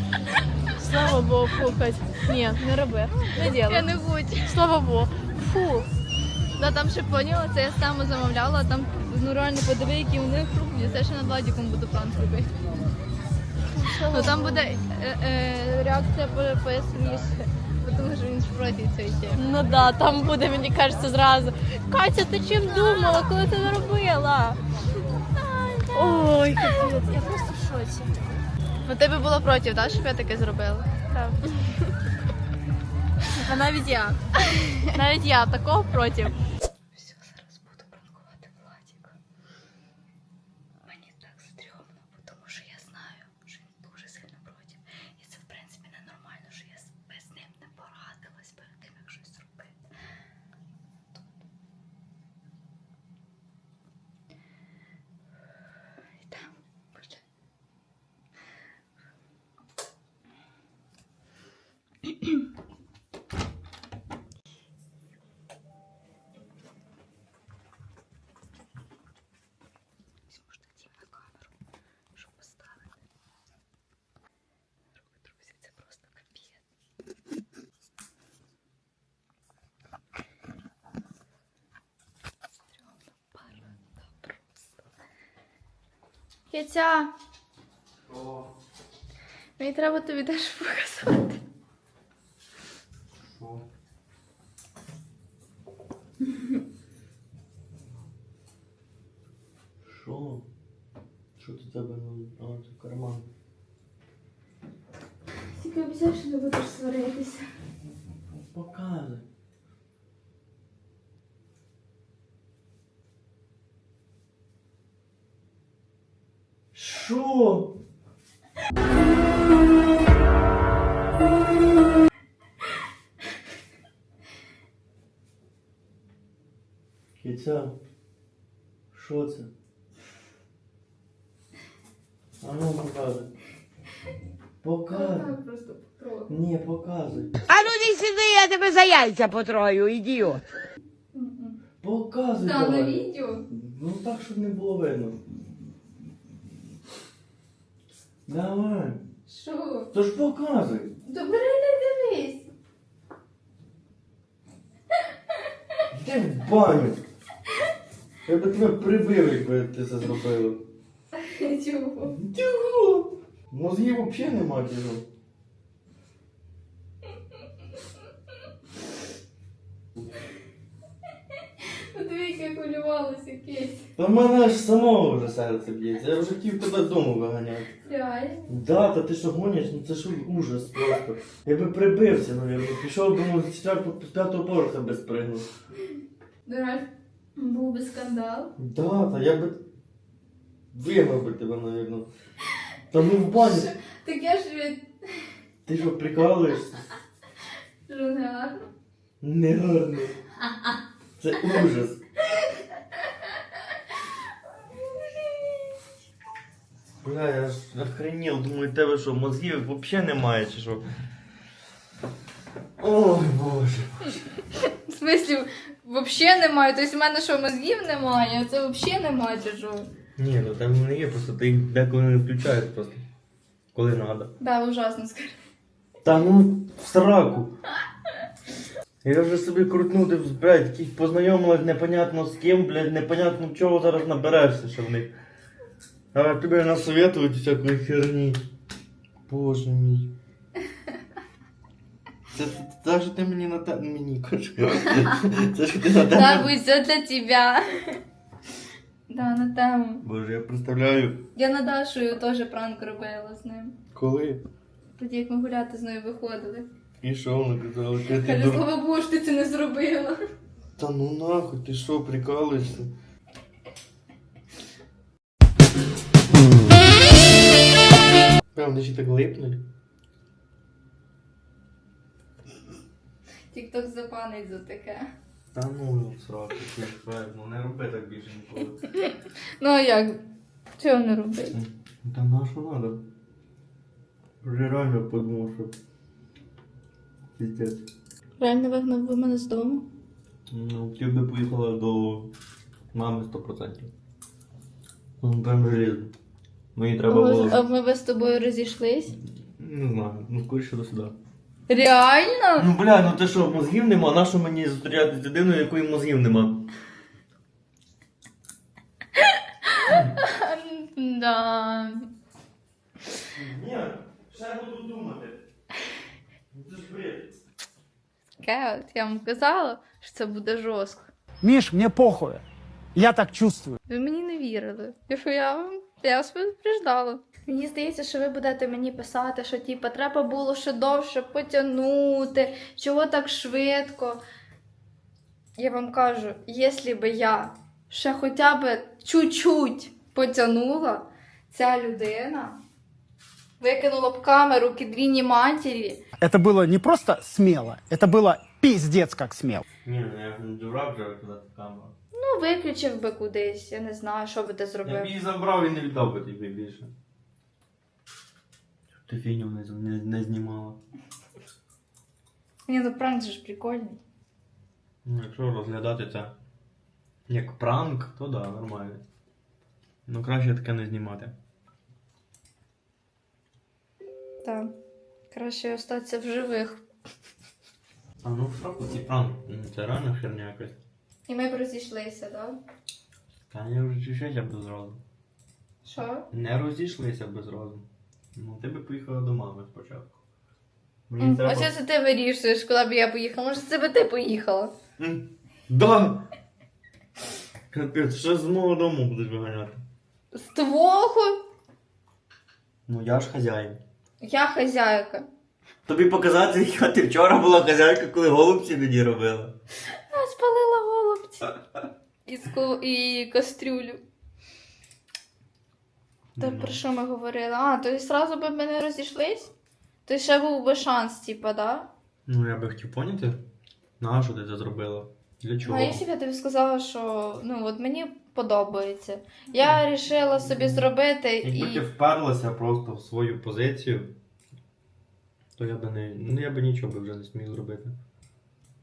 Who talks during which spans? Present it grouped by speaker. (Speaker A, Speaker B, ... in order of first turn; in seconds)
Speaker A: 0.8-3.9, 4.5-5.9, 13.7-14.8, 19.4-24.6, 25.9-28.1, 31.1-31.4, 33.4-34.1, 34.8-36.4
Speaker B: 3.4-4.6, 6.6-12.5, 14.1-19.4, 29.1-29.5, 30.2-30.9, 33.5-33.8, 37.0-39.1, 40.9-49.7, 86.5-87.1, 89.6-91.4, 105.6-107.5, 134.9-136.3, 141.1-141.6, 142.4-143.5, 149.3-149.9, 151.0-152.5, 161.2-162.2, 171.9-173.8, 177.8-178.5, 186.5-188.5, 193.3-194.9, 197.9-198.7, 214.9-219.9, 224.4-225.4, 246.1-248.0, 249.1-250.0, 251.4-253.8, 255.0-256.7, 258.1-260.2, 273.5-275.1, 279.6-280.2, 280.8-281.6, 288.4-289.9, 297.1-299.1, 301.7-302.7, 310.2-312.1, 318.4-321.1, 323.9-334.2, 335.6-342.6, 343.6-346.0, 352.1-355.1, 362.7-364.0, 374.4-374.7, 375.3-376.8, 381.3-382.6, 385.9-386.3, 391.2-394.7, 400.3-401.4, 404.2-405.3, 410.1-411.4, 412.3-414.0, 416.4-419.5, 420.1-421.9, 425.6-431.8
Speaker C: 88.1-88.5, 93.3-93.7, 99.9-100.5, 101.4-103.3, 108.5-109.3, 116.7-117.8, 127.2-127.8, 128.9-129.5, 132.4-133.3, 134.6-135.3, 136.3-137.3, 141.8-143.0, 143.5-145.2, 148.3-149.0, 149.9-150.9, 155.9-157.0, 158.3-160.6, 162.1-165.1, 174.0-177.7, 178.5-185.5, 188.6-189.6, 190.7-192.1, 192.9-193.7, 195.7-196.9, 199.2-200.2, 201.2-202.0, 207.0-210.8, 212.8-214.2, 220.2-223.0, 223.7-224.3, 226.0-227.6, 229.0-235.1, 236.1-238.4, 239.3-240.1, 242.3-246.5, 250.0-251.2, 253.9-254.4, 257.0-258.7, 260.8-262.9, 268.6-269.6, 275.5-278.8, 281.5-283.0, 284.4-285.7, 287.4-287.9, 290.5-292.3, 292.9-293.9, 295.2-296.1, 296.8-297.6, 299.4-301.1, 302.6-306.6, 313.2-315.4, 316.5-317.3, 349.9-351.9, 354.8-356.9, 359.1-360.8, 365.1-366.3, 367.3-369.0, 370.1-371.4, 378.2-380.8, 383.5-385.0, 386.3-390.1, 391.1-391.7, 395.0-396.3, 397.7-399.8, 402.9-403.8, 405.9-409.6, 416.4-416.8, 422.3-423.4, 424.0-426.0, 430.5-430.9, 431.4-434.1, 435.6-437.9
Speaker D: 137.5-140.4
Speaker E: 321.4-322.4, 322.9-323.8, 346.2-349.6